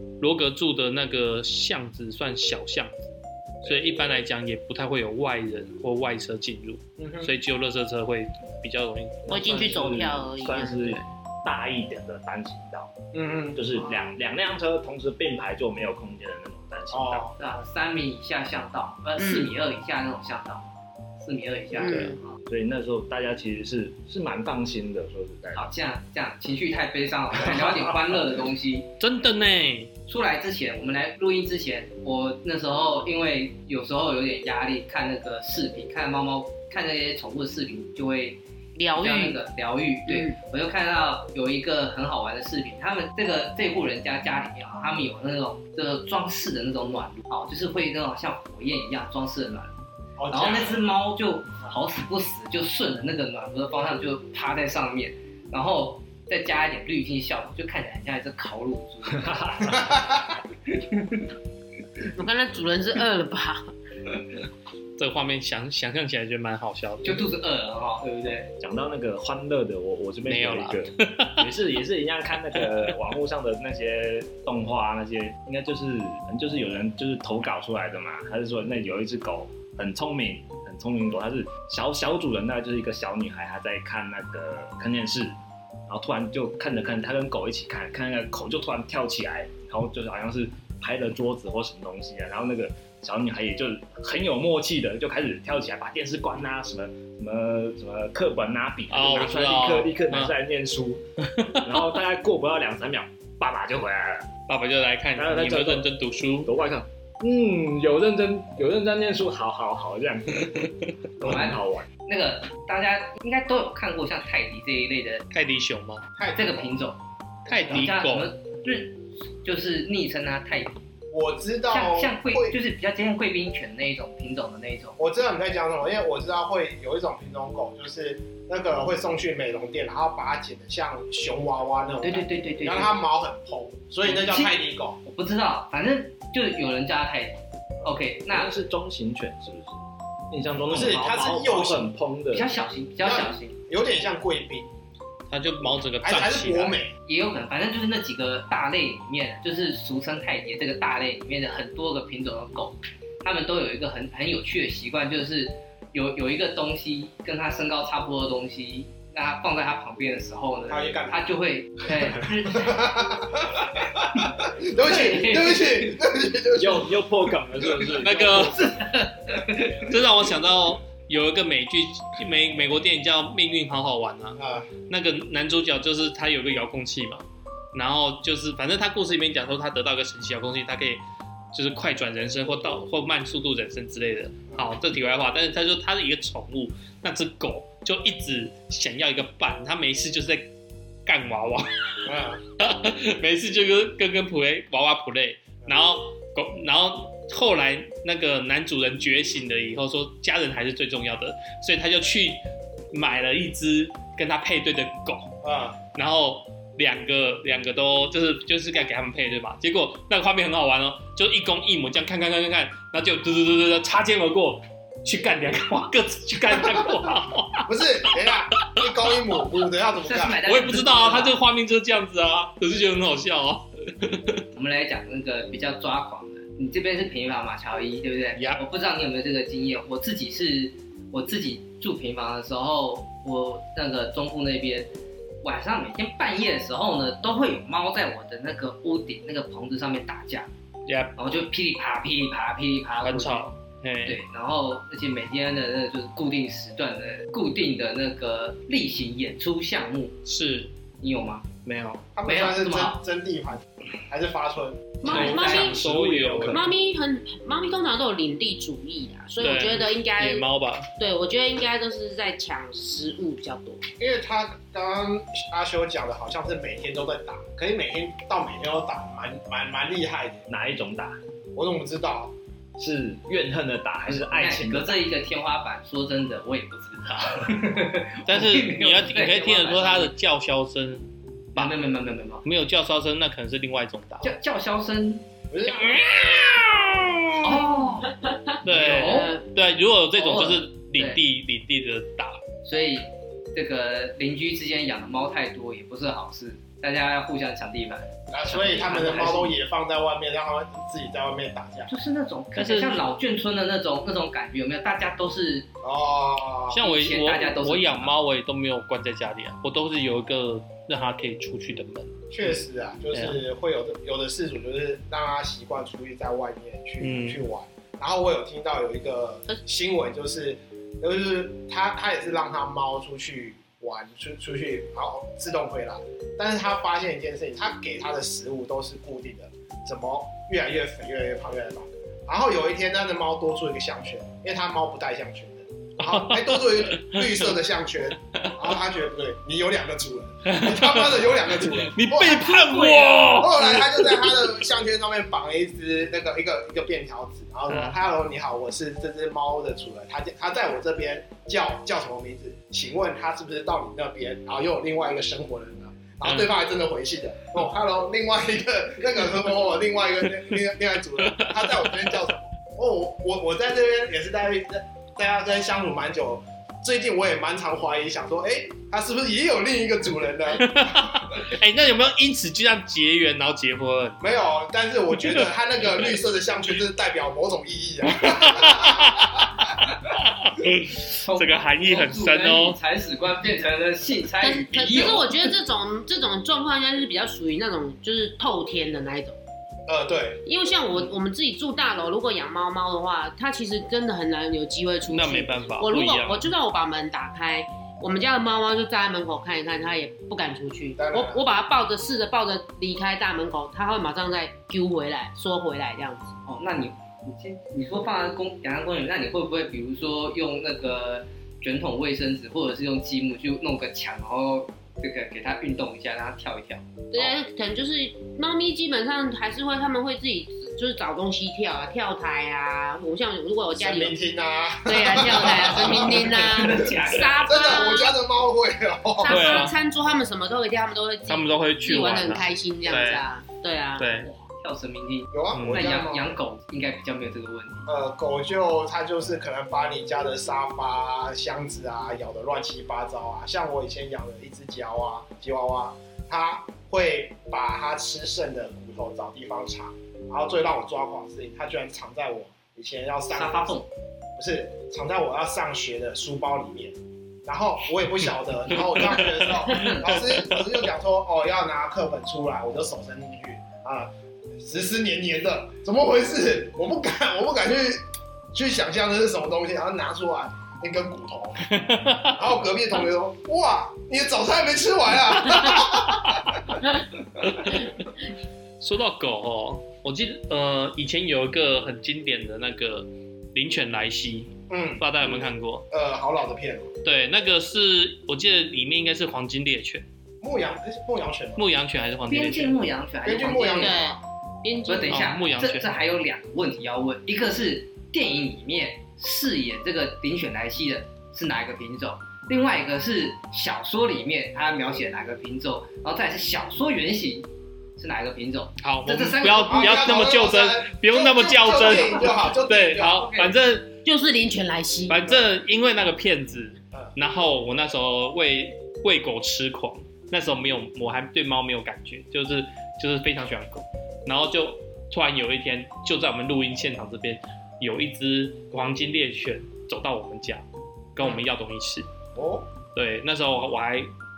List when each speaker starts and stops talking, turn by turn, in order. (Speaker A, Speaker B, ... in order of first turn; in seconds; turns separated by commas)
Speaker A: 0.2-9.7, Speaker B: 7.0-7.3, Speaker C: 9.3-12.9, Speaker D: 9.3-11.0, Speaker B: 13.1-13.8, Speaker C: 13.5-17.3, Speaker B: 16.9-17.6, Speaker E: 17.4-20.7, Speaker D: 19.2-19.5, Speaker E: 21.2-22.4, Speaker D: 21.8-22.2, Speaker A: 21.9-22.2, Speaker C: 22.5-25.7, Speaker E: 25.5-28.9, Speaker A: 29.0-29.9, Speaker E: 30.1-38.4, Speaker D: 38.8-39.4, Speaker E: 39.0-49.8, Speaker D: 40.1-40.4, Speaker B: 50.2-50.8, Speaker E: 50.3-61.3, Speaker C: 59.1-60.3, Speaker B: 59.9-60.2, Speaker D: 62.2-63.7, Speaker A: 65.0-67.2, Speaker E: 67.0-68.5, Speaker C: 68.6-101.0, Speaker A: 70.3-71.5, Speaker A: 72.5-72.9, Speaker A: 98.9-100.4, Speaker A: 101.3-102.0, Speaker C: 101.6-104.3, Speaker A: 104.5-106.5, Speaker C: 105.2-105.9, Speaker C: 106.4-111.9, Speaker E: 111.2-115.3, Speaker A: 115.3-116.0, Speaker B: 116.2-116.7, Speaker E: 116.3-120.8, Speaker A: 117.5-118.3, Speaker B: 121.1-122.6, Speaker E: 121.7-125.0, Speaker B: 125.0-135.0, Speaker E: 132.0-133.0, Speaker E: 134.0-138.5, Speaker C: 138.3-142.5, Speaker B: 140.5-141.9, Speaker E: 142.3-143.6, Speaker B: 143.0-144.7, Speaker A: 145.3-146.8, Speaker B: 146.0-146.9, Speaker E: 147.1-162.9, Speaker B: 160.7-161.3, Speaker B: 162.5-167.6, Speaker E: 164.2-165.9, Speaker C: 166.6-168.7, Speaker A: 167.9-168.7, Speaker E: 168.6-169.9, Speaker A: 169.9-181.0, Speaker B: 174.4-174.7, Speaker A: 181.5-190.5, Speaker A: 191.1-205.3, Speaker B: 192.1-192.4, Speaker B: 205.4-205.8, Speaker A: 205.9-219.2, Speaker B: 217.7-220.4, Speaker E: 220.0-221.4, Speaker A: 220.4-224.4, Speaker E: 224.5-234.9, Speaker A: 228.3-228.6, Speaker E: 235.4-240.5, Speaker A: 240.9-241.1, Speaker E: 241.2-243.5, Speaker A: 243.0-244.2, Speaker E: 244.1-250.2, Speaker A: 250.3-250.7, Speaker E: 251.0-251.5, Speaker A: 251.6-252.1, Speaker B: 252.2-255.3, Speaker E: 252.2-253.0, Speaker E: 255.0-255.8, Speaker D: 255.0-255.8, Speaker A: 255.1-256.7, Speaker C: 255.2-256.7, Speaker D: 256.5-260.5, Speaker A: 259.4-260.9, Speaker D: 261.0-263.8, Speaker B: 264.0-270.5, Speaker C: 270.5-271.2, Speaker B: 271.6-272.3, Speaker C: 272.8-275.1, Speaker E: 274.1-280.1, Speaker A: 278.3-281.8, Speaker E: 281.6-282.4, Speaker A: 282.4-284.3, Speaker E: 284.2-285.2, Speaker B: 285.5-286.1, Speaker A: 285.9-286.9, Speaker E: 287.4-289.5, Speaker D: 287.8-289.3, Speaker A: 288.6-292.4, Speaker E: 290.1-291.2, Speaker E: 292.6-299.6, Speaker B: 298.3-301.9, Speaker E: 301.9-305.7, Speaker A: 302.6-303.0, Speaker B: 305.8-306.8, Speaker A: 306.7-312.6, Speaker E: 306.8-308.1, Speaker B: 312.3-371.4, Speaker A: 313.1-313.4, Speaker A: 317.0-317.4, Speaker A: 336.0-337.4, Speaker A: 338.4-338.7, Speaker A: 340.5-344.5, Speaker A: 347.7-348.0, Speaker A: 356.2-356.5, Speaker A: 361.3-362.1, Speaker A: 370.6-374.2, Speaker B: 374.2-379.6, Speaker A: 375.2-375.5, Speaker A: 378.1-382.8, Speaker E: 381.0-385.5, Speaker D: 384.4-389.4, Speaker B: 389.9-390.4, Speaker D: 390.4-406.4, Speaker A: 395.1-396.5, Speaker B: 401.0-401.4, Speaker E: 406.5-417.3, Speaker D: 417.1-424.1, Speaker B: 423.8-426.9, Speaker D: 424.8-428.2, Speaker E: 426.3-427.4, Speaker B: 427.5-429.6, Speaker D: 429.2-434.1, Speaker A: 429.3-429.8, Speaker A: 431.3-433.3, Speaker A: 434.0-434.3, Speaker E: 434.2-437.9, Speaker B: 435.3-436.3, Speaker A: 435.5-435.9, Speaker B: 437.9-453.8, Speaker E: 453.3-453.9, Speaker B: 454.4-476.8, Speaker A: 458.7-460.7, Speaker E: 459.7-460.0, Speaker A: 471.7-472.4, Speaker A: 475.6-476.4, Speaker A: 477.4-478.1, Speaker A: 478.8-485.9, Speaker B: 484.7-485.4, Speaker B: 485.9-486.9, Speaker A: 487.0-490.1, Speaker B: 490.4-491.7, Speaker A: 491.6-492.8, Speaker E: 492.3-494.1, Speaker B: 493.2-494.2, Speaker D: 493.8-495.2, Speaker E: 494.9-510.2, Speaker A: 495.1-495.9, Speaker A: 508.8-513.9, Speaker B: 509.7-513.3, Speaker E: 511.7-513.5, Speaker D: 514.0-515.3, Speaker A: 515.1-530.6, Speaker A: 531.1-532.1, Speaker B: 532.4-532.7, Speaker A: 533.0-534.1